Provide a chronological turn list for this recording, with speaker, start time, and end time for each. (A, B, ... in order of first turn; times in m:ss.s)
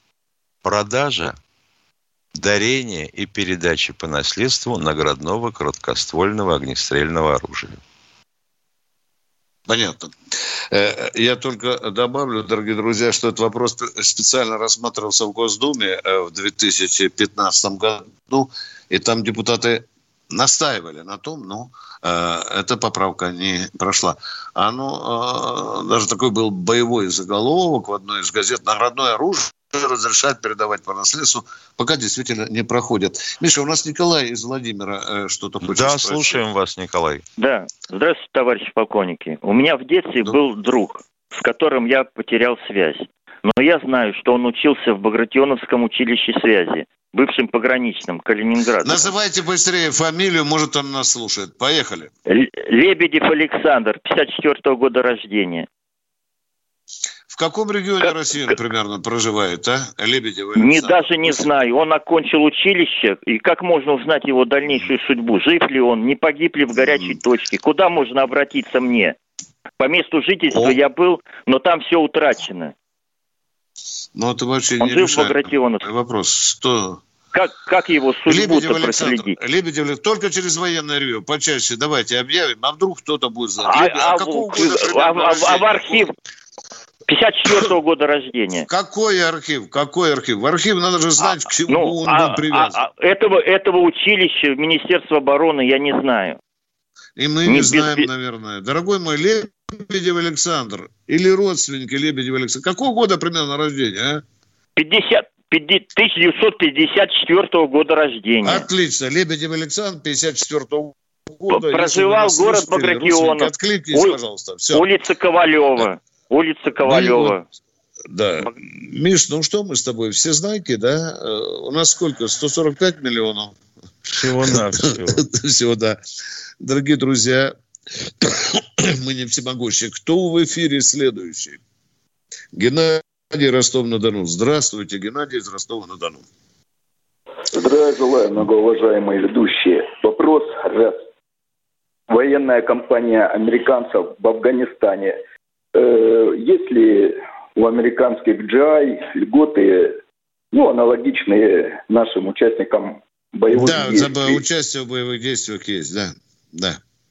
0:00.6-0:01.4 A
0:02.4-0:07.8 A
0:09.7-0:10.1 B
0:10.7-0:36.4 B
0:35.7-0:37.2 A
0:37.4-0:49.1 C
0:48.8-0:52.1 B
0:52.3-0:55.7 C
0:57.3-1:01.4 B
1:00.6-1:09.2 C
1:09.8-1:12.7 C
1:10.5-1:10.8 B
1:14.2-1:17.0 B
1:14.8-1:15.9 C
1:17.3-1:19.4 C
1:18.3-1:26.1 B
1:23.6-1:26.1 C
1:27.1-1:28.7 C
1:28.7-1:32.8 B
1:31.2-1:36.4 C
1:37.2-1:44.2 B
1:37.5-1:38.1 C
1:44.8-1:48.7 C
1:48.4-1:54.9 B
1:51.5-1:54.2 C
1:54.7-1:57.4 C
1:56.8-1:57.4 B
1:58.1-2:03.6 B
2:04.1-2:05.2 A
2:04.5-2:06.0 B
2:06.6-2:07.5 B
2:08.2-2:11.6 B
2:12.5-2:16.2 B
2:17.5-2:21.0 D
2:22.1-2:25.2 D
2:25.8-2:30.0 D
2:30.5-2:34.4 D
2:33.5-2:36.8 B